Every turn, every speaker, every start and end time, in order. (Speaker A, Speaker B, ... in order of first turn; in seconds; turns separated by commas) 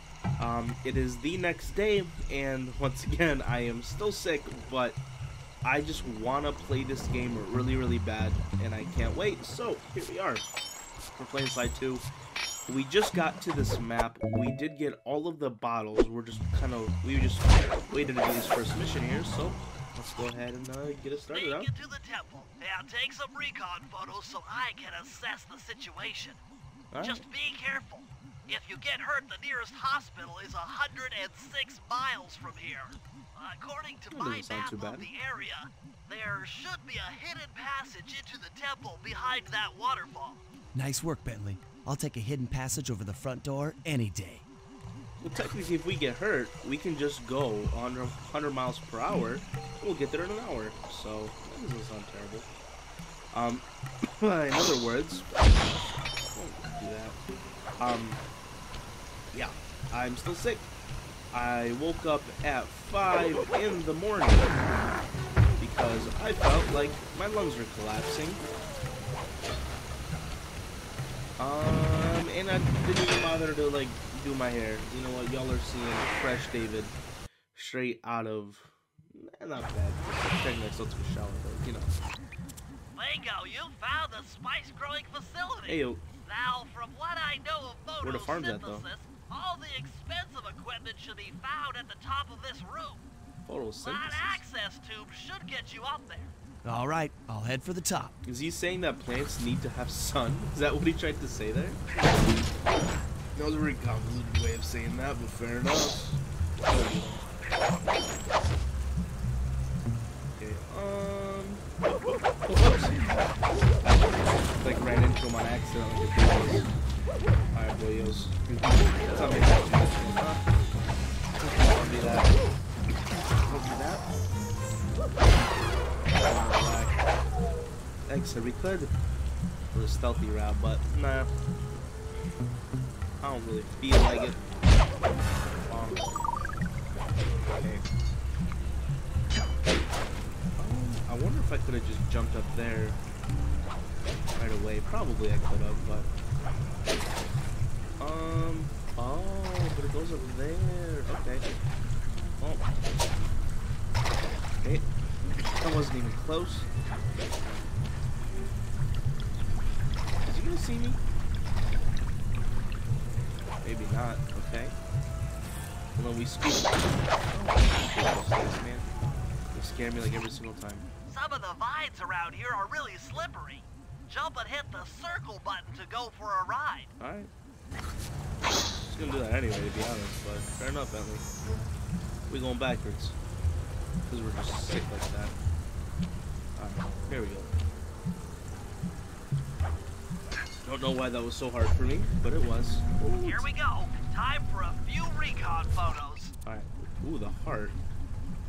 Speaker A: 0.4-5.0, Speaker A: 5.6-10.5, Speaker A: 11.2-12.1, Speaker A: 12.7-21.7, Speaker B: 21.3-26.4, Speaker A: 26.9-27.3, Speaker B: 27.0-40.4, Speaker A: 34.1-35.1, Speaker C: 40.7-44.5, Speaker A: 45.2-52.5, Speaker A: 53.3-55.3, Speaker A: 56.3-57.2, Speaker A: 57.8-58.2, Speaker A: 59.3-60.7, Speaker A: 61.3-64.6, Speaker A: 65.6-68.4, Speaker A: 71.4-77.0, Speaker A: 77.5-82.0, Speaker B: 83.0-93.0, Speaker A: 85.7-86.0, Speaker A: 88.0-88.9, Speaker A: 93.5-94.4, Speaker B: 93.8-96.3, Speaker C: 96.6-98.2, Speaker A: 98.2-101.8, Speaker A: 103.3-107.2, Speaker A: 110.3-111.7, Speaker A: 112.4-113.2, Speaker A: 113.8-116.7, Speaker A: 117.5-120.4, Speaker A: 121.4-122.4, Speaker A: 123.5-124.0, Speaker A: 126.1-127.0, Speaker A: 128.1-128.9, Speaker A: 129.7-131.3, Speaker A: 133.2-134.4, Speaker A: 135.7-136.1, Speaker A: 137.5-137.8, Speaker A: 140.6-143.0, Speaker A: 144.4-146.1, Speaker A: 148.0-151.5, Speaker A: 152.4-152.7, Speaker A: 154.6-154.9, Speaker A: 155.5-156.7, Speaker A: 160.2-161.0, Speaker A: 163.6-164.8, Speaker A: 166.0-168.9, Speaker A: 169.5-170.9, Speaker B: 171.1-176.9, Speaker A: 177.0-177.3, Speaker A: 178.8-181.3, Speaker A: 182.3-183.2, Speaker A: 184.1-185.3, Speaker A: 186.6-187.5, Speaker A: 190.6-193.5, Speaker B: 193.2-196.3, Speaker A: 196.4-197.8